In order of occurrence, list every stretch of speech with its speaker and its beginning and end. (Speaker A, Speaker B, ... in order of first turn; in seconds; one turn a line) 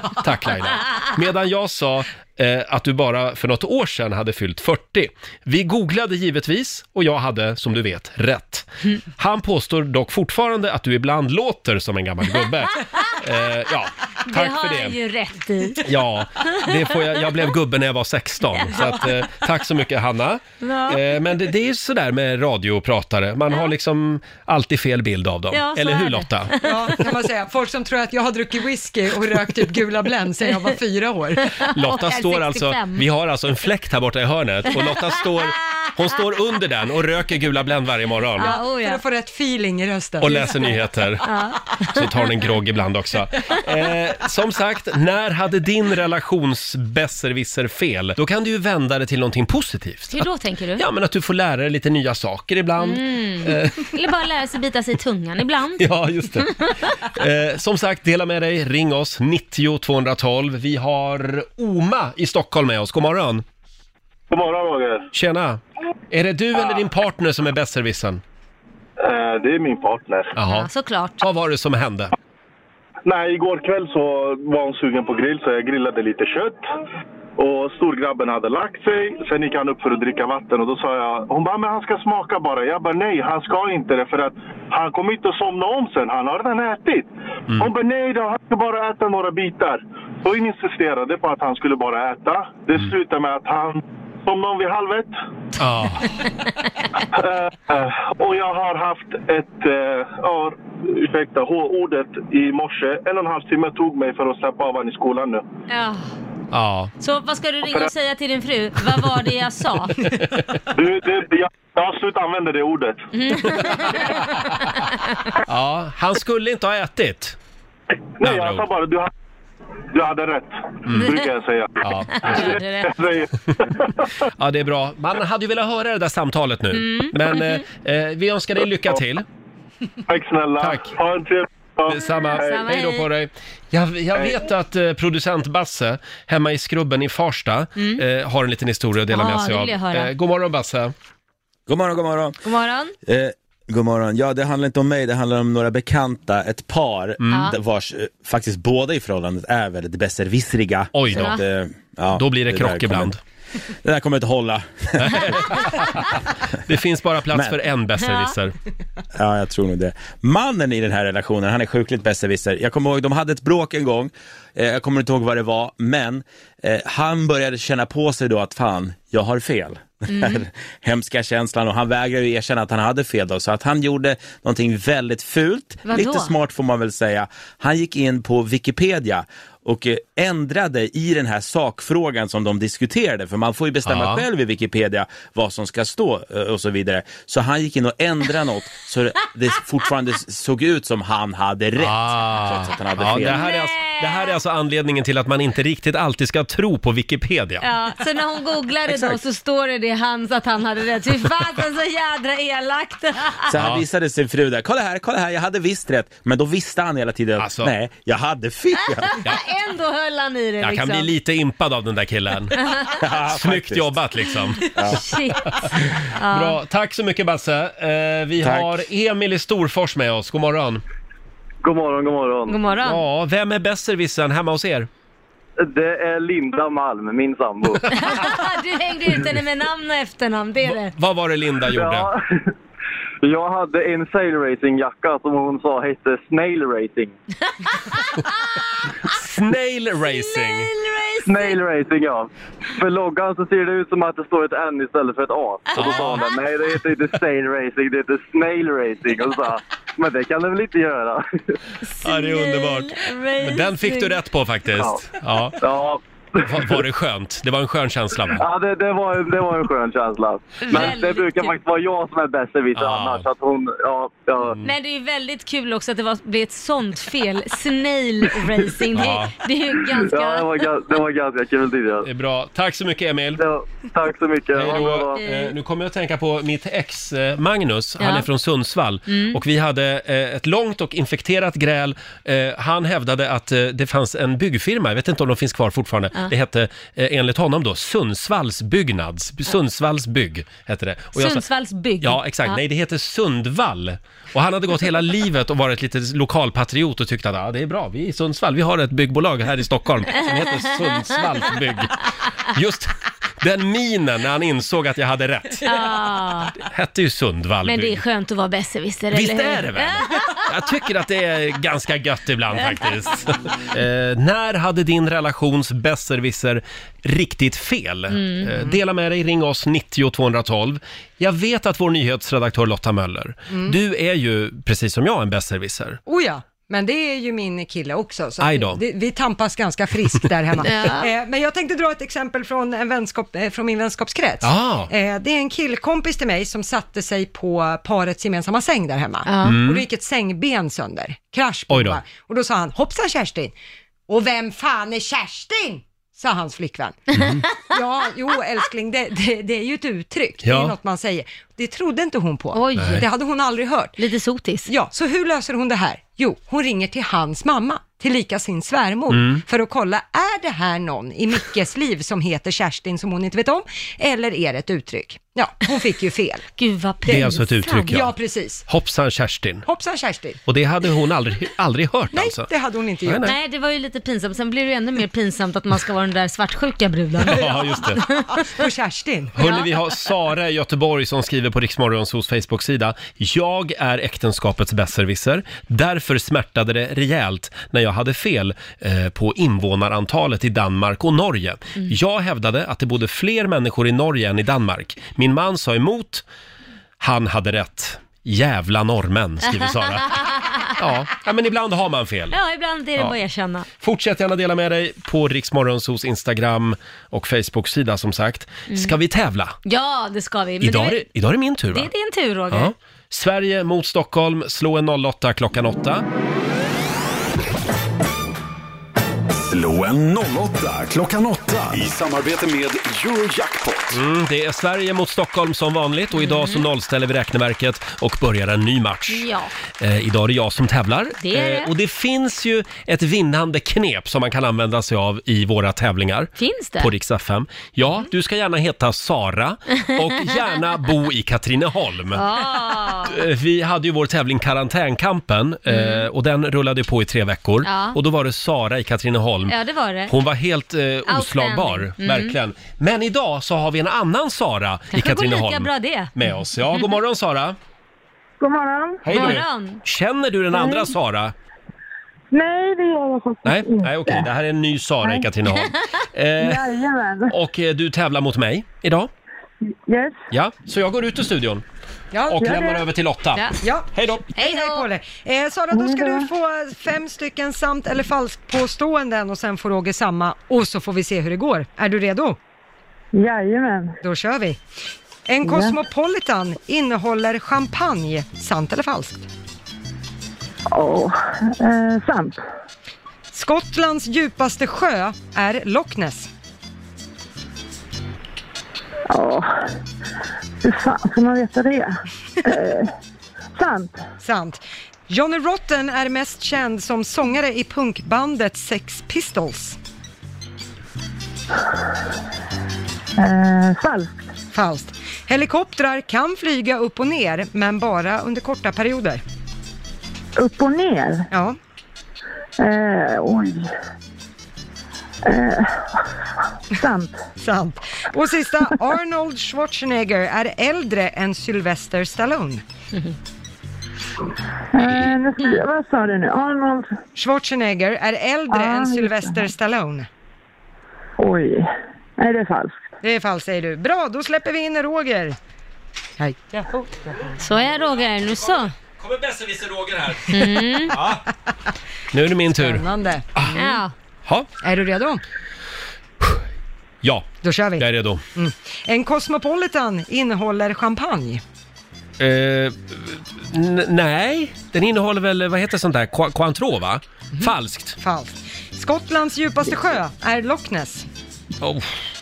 Speaker A: 0.2-14.9
Speaker B: 0.6-1.0
Speaker B: 14.3-15.9
Speaker A: 15.8-26.5
Speaker B: 18.5-19.1
Speaker B: 20.6-21.0
Speaker B: 25.5-26.9
Speaker C: 26.6-31.5
Speaker B: 31.6-33.0
Speaker A: 31.7-38.5
Speaker B: 38.4-39.0
Speaker C: 38.4-40.7
Speaker A: 40.2-41.3
Speaker B: 41.2-42.2
Speaker A: 41.9-50.2
Speaker B: 50.1-50.8
Speaker A: 50.8-54.0
Speaker B: 52.8-56.9
Speaker A: 55.8-63.4
Speaker D: 64.3-65.0
Speaker A: 65.1-65.6
Speaker A: 66.1-68.2
Speaker D: 69.0-70.3
Speaker A: 70.3-70.7
Speaker B: 70.5-71.2
Speaker A: 71.2-72.1
Speaker D: 73.0-76.6
Speaker D: 77.4-95.2
Speaker A: 95.6-96.2
Speaker D: 97.1-105.4
Speaker B: 105.7-106.1
Speaker A: 106.5-106.9
Speaker B: 107.0-110.1
Speaker A: 110.1-110.6
Speaker D: 110.7-113.1
Speaker B: 113.1-114.1
Speaker A: 113.4-114.8
Speaker A: 115.5-117.4
Speaker D: 118.2-119.1
Speaker A: 118.2-118.6
Speaker D: 119.9-124.1
Speaker B: 120.9-121.2
Speaker A: 121.8-122.5
Speaker B: 122.1-122.9
Speaker A: 124.4-129.2
Speaker B: 126.7-127.6
Speaker D: 130.1-132.7
Speaker A: 130.6-130.9
Speaker A: 131.8-140.9
Speaker B: 132.3-133.1
Speaker B: 139.1-140.1
Speaker E: 141.7-142.4
Speaker B: 142.4-142.9
Speaker E: 143.1-153.1
Speaker A: 147.2-147.4
Speaker A: 150.9-151.4
Speaker B: 151.1-151.4
Speaker A: 152.1-153.2
Speaker E: 153.8-155.8
Speaker A: 155.0-158.5
Speaker E: 157.3-157.6
Speaker B: 158.0-158.3
Speaker E: 159.2-193.4
Speaker B: 170.1-170.4
Speaker B: 175.8-176.3
Speaker A: 183.8-184.2
Speaker A: 191.8-197.7
Speaker B: 193.2-194.3
Speaker B: 197.6-203.4
Speaker E: 198.9-199.2
Speaker E: 203.5-209.2
Speaker A: 203.6-203.8
Speaker A: 207.4-207.7
Speaker B: 209.0-211.1
Speaker A: 210.6-212.6
Speaker B: 212.6-213.0
Speaker E: 212.9-213.9
Speaker A: 213.3-214.6
Speaker B: 214.6-216.6
Speaker E: 214.7-215.1
Speaker A: 215.8-220.8
Speaker E: 218.4-218.8
Speaker F: 221.6-222.6
Speaker B: 222.5-223.0
Speaker A: 222.8-224.9
Speaker F: 225.6-228.1
Speaker B: 227.9-230.9
Speaker A: 230.7-232.1
Speaker F: 231.7-232.5
Speaker F: 233.2-237.1
Speaker B: 237.7-238.6
Speaker A: 239.1-240.7
Speaker B: 240.1-241.6
Speaker F: 241.2-251.2
Speaker B: 245.7-246.3
Speaker A: 245.7-246.2
Speaker B: 251.8-254.1
Speaker A: 252.0-255.6
Speaker F: 254.8-255.0
Speaker F: 255.6-256.4
Speaker A: 256.4-258.4
Speaker F: 258.4-264.6
Speaker B: 260.6-261.5
Speaker A: 260.7-261.0
Speaker A: 262.7-263.3
Speaker A: 264.4-264.7
Speaker B: 264.6-270.6
Speaker A: 268.9-269.3
Speaker F: 269.9-272.1
Speaker A: 272.0-273.4
Speaker F: 273.4-275.2
Speaker A: 274.5-291.4
Speaker B: 275.2-275.5
Speaker B: 278.0-278.3
Speaker B: 279.1-279.4
Speaker B: 291.1-292.6
Speaker A: 292.0-305.8
Speaker B: 305.6-306.6
Speaker A: 306.6-308.0
Speaker B: 307.6-310.4
Speaker A: 309.1-326.0
Speaker B: 318.1-318.5
Speaker C: 323.5-323.8
Speaker C: 326.1-343.5
Speaker A: 328.4-328.8
Speaker B: 330.6-331.1
Speaker A: 334.4-334.9
Speaker B: 339.3-339.6
Speaker A: 339.4-339.8
Speaker A: 341.7-342.0
Speaker C: 344.1-354.0
Speaker A: 347.1-347.4
Speaker A: 350.4-350.7
Speaker B: 352.5-353.1
Speaker A: 352.8-353.0
Speaker B: 354.0-354.7
Speaker C: 354.7-366.5
Speaker A: 359.1-359.4
Speaker B: 366.6-367.9
Speaker A: 367.1-368.1
Speaker C: 367.9-368.6
Speaker A: 368.7-369.6
Speaker C: 369.6-370.4
Speaker A: 370.4-372.5
Speaker C: 372.1-373.3
Speaker A: 373.0-373.3
Speaker B: 373.2-378.5
Speaker A: 377.2-378.0
Speaker C: 377.3-377.6
Speaker C: 378.4-379.4
Speaker A: 379.4-396.2
Speaker B: 379.4-379.7
Speaker A: 397.0-402.4
Speaker B: 400.1-400.7
Speaker B: 402.3-403.7
Speaker A: 403.8-409.6
Speaker B: 408.7-408.9
Speaker B: 409.6-411.1
Speaker A: 410.6-411.9
Speaker B: 411.7-412.7
Speaker A: 412.5-416.0
Speaker G: 419.3-424.0
Speaker A: 423.9-449.5
Speaker B: 426.2-426.6
Speaker B: 429.1-429.5
Speaker B: 431.2-431.7
Speaker B: 436.4-436.9
Speaker B: 442.1-443.2
Speaker B: 445.7-446.1
Speaker B: 447.6-448.0
Speaker B: 449.5-450.1
Speaker A: 450.1-457.6
Speaker B: 451.1-452.3
Speaker B: 454.9-456.1
Speaker H: 458.4-459.2
Speaker A: 459.0-461.3
Speaker B: 459.1-459.8
Speaker H: 460.5-460.9
Speaker H: 462.3-464.3
Speaker A: 463.4-466.7
Speaker H: 465.0-465.3
Speaker H: 466.4-467.3
Speaker A: 467.3-469.1
Speaker H: 469.7-470.2
Speaker A: 470.3-471.6
Speaker C: 472.1-472.6
Speaker A: 472.3-474.3
Speaker H: 472.4-472.8
Speaker C: 473.6-482.4
Speaker B: 474.4-474.9
Speaker H: 475.7-476.3
Speaker H: 483.1-484.0
Speaker C: 484.0-484.6
Speaker C: 485.3-489.3
Speaker H: 485.4-485.8
Speaker H: 490.7-492.4
Speaker C: 493.3-496.3
Speaker H: 499.1-499.5
Speaker H: 500.6-502.9
Speaker H: 503.6-504.0
Speaker C: 504.2-509.8
Speaker H: 513.2-514.2
Speaker C: 514.5-519.2
Speaker H: 520.4-521.3
Speaker C: 521.3-521.6
Speaker H: 522.6-523.7
Speaker H: 525.2-526.0
Speaker H: 526.7-527.2
Speaker C: 527.4-532.6
Speaker H: 534.7-537.0
Speaker C: 537.1-540.1
Speaker H: 538.5-539.5
Speaker H: 541.2-542.8
Speaker C: 543.0-545.4
Speaker C: 546.2-547.3
Speaker B: 547.4-548.7
Speaker A: 548.2-551.2
Speaker B: 550.3-551.0
Speaker A: 552.1-552.8
Speaker C: 552.6-553.8
Speaker B: 553.5-553.9
Speaker C: 554.6-555.2
Speaker A: 557.0-558.2
Speaker C: 557.4-561.4
Speaker A: 562.2-568.0
Speaker C: 567.3-571.1
Speaker A: 571.6-572.0